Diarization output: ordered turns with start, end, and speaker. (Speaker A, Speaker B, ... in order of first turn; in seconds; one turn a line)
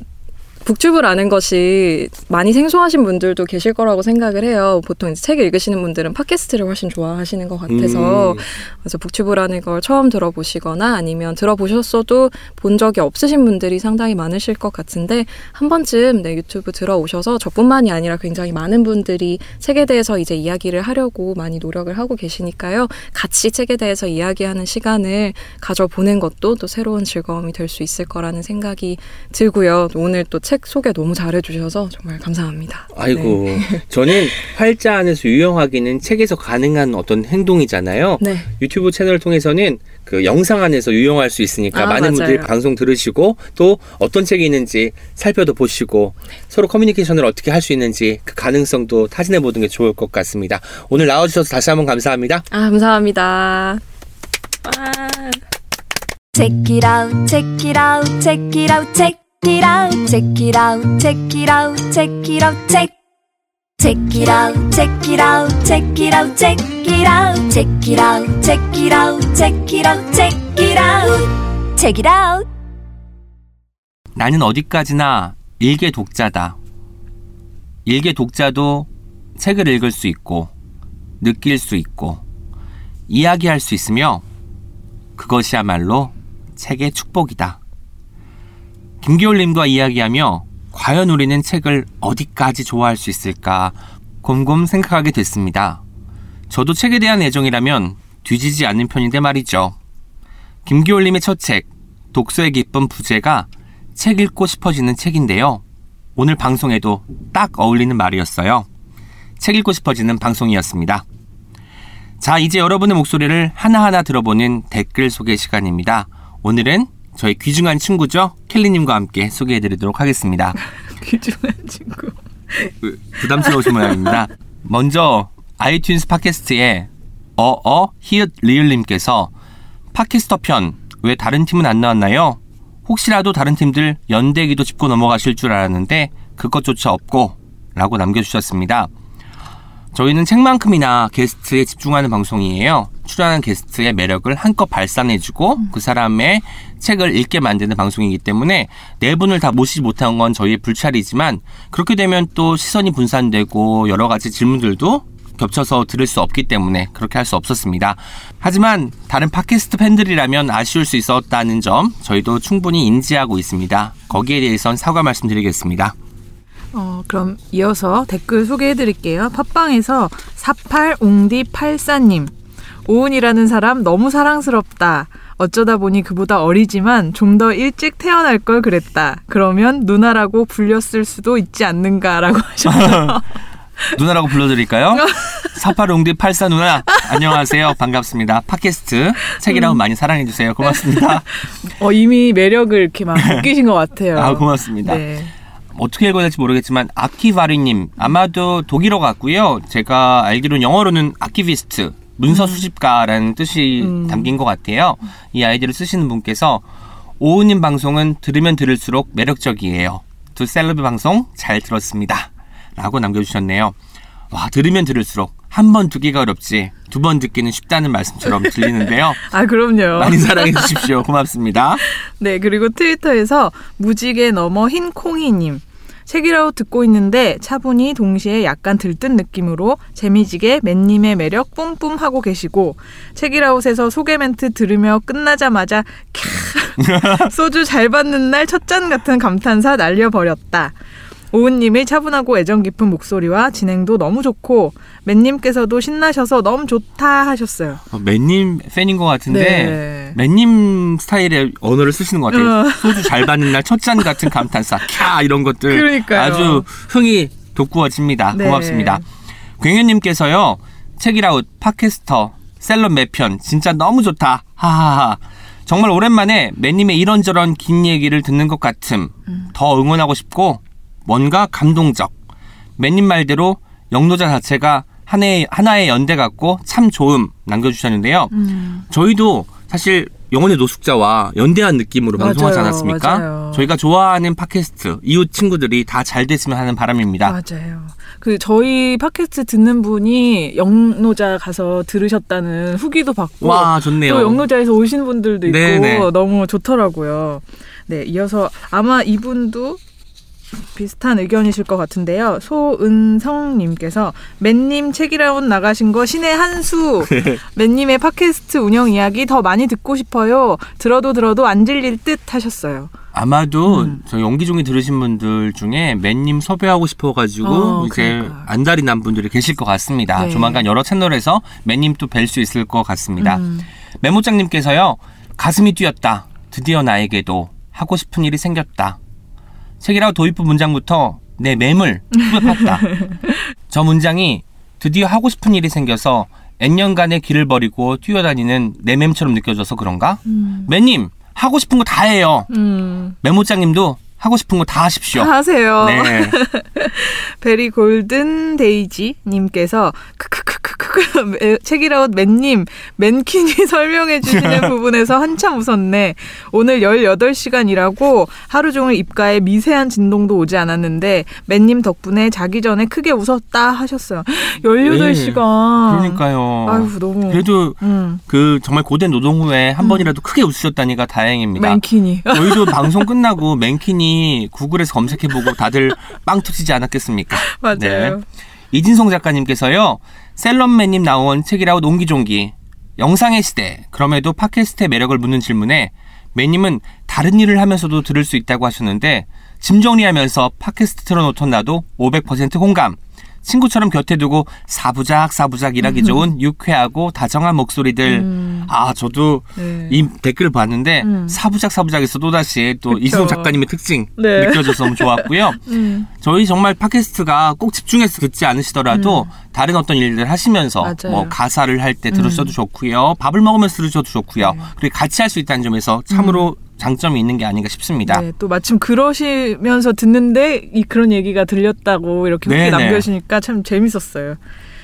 Speaker A: 0.6-34.4
Speaker B: 7.7-8.4
Speaker B: 32.9-52.4
Speaker A: 38.2-38.5
Speaker A: 41.7-42.5
Speaker A: 52.5-53.8
Speaker A: 54.6-55.4
Speaker C: 56.3-62.9
Speaker C: 63.8-72.5
Speaker B: 74.1-76.6
Speaker B: 77.8-80.5
Speaker B: 81.2-82.2
Speaker B: 83.1-84.2
Speaker B: 85.2-87.6
Speaker B: 89.0-95.8
Speaker B: 96.5-99.8
Speaker B: 100.7-105.6
Speaker B: 106.2-108.7
Speaker B: 109.4-111.0
Speaker B: 112.2-120.6
Speaker D: 121.0-122.7
Speaker B: 122.8-129.3
Speaker D: 123.4-124.1
Speaker B: 129.9-138.9
Speaker B: 139.9-165.9
Speaker D: 166.7-172.3
Speaker D: 172.8-183.2
Speaker B: 182.6-183.2
Speaker B: 183.9-191.3
Speaker D: 184.9-185.5
Speaker D: 189.5-189.8
Speaker D: 191.6-195.3
Speaker B: 193.2-193.5
Speaker B: 194.1-195.0
Speaker B: 195.7-206.6
Speaker D: 202.3-202.6
Speaker D: 203.8-204.3
Speaker B: 207.2-213.8
Speaker B: 214.3-219.2
Speaker D: 219.2-220.9
Speaker B: 219.9-221.8
Speaker D: 221.9-240.8
Speaker B: 236.8-237.3
Speaker D: 241.3-247.8
Speaker B: 247.9-259.0
Speaker D: 249.3-250.2
Speaker D: 252.3-253.3
Speaker D: 255.7-256.6
Speaker D: 258.3-259.0
Speaker B: 259.6-272.1
Speaker B: 272.8-278.3
Speaker D: 278.3-278.8
Speaker B: 278.9-287.4
Speaker D: 282.2-283.7
Speaker D: 287.2-299.8
Speaker B: 293.4-294.4
Speaker B: 295.4-296.1
Speaker D: 300.7-312.9
Speaker B: 307.1-307.4
Speaker B: 313.1-323.4
Speaker D: 313.7-314.0
Speaker D: 317.4-318.5
Speaker D: 320.1-320.6
Speaker D: 323.2-323.7
Speaker B: 324.0-329.0
Speaker B: 329.8-333.0
Speaker D: 332.5-333.3
Speaker B: 333.7-342.5
Speaker D: 340.3-340.7
Speaker D: 342.5-343.1
Speaker B: 343.2-346.4
Speaker D: 345.1-368.2
Speaker B: 354.2-354.7
Speaker B: 364.8-378.2
Speaker D: 369.8-370.1
Speaker D: 371.6-373.1
Speaker D: 377.5-378.2
Speaker B: 378.7-418.2
Speaker D: 395.8-396.2
Speaker D: 398.1-398.7
Speaker D: 399.6-400.0
Speaker D: 401.0-401.4
Speaker D: 402.9-403.5
Speaker D: 404.2-406.1
Speaker D: 408.9-409.3
Speaker D: 410.8-411.3
Speaker D: 412.1-412.5
Speaker D: 414.4-414.6
Speaker D: 416.1-416.4
Speaker D: 418.1-424.4
Speaker B: 422.4-423.1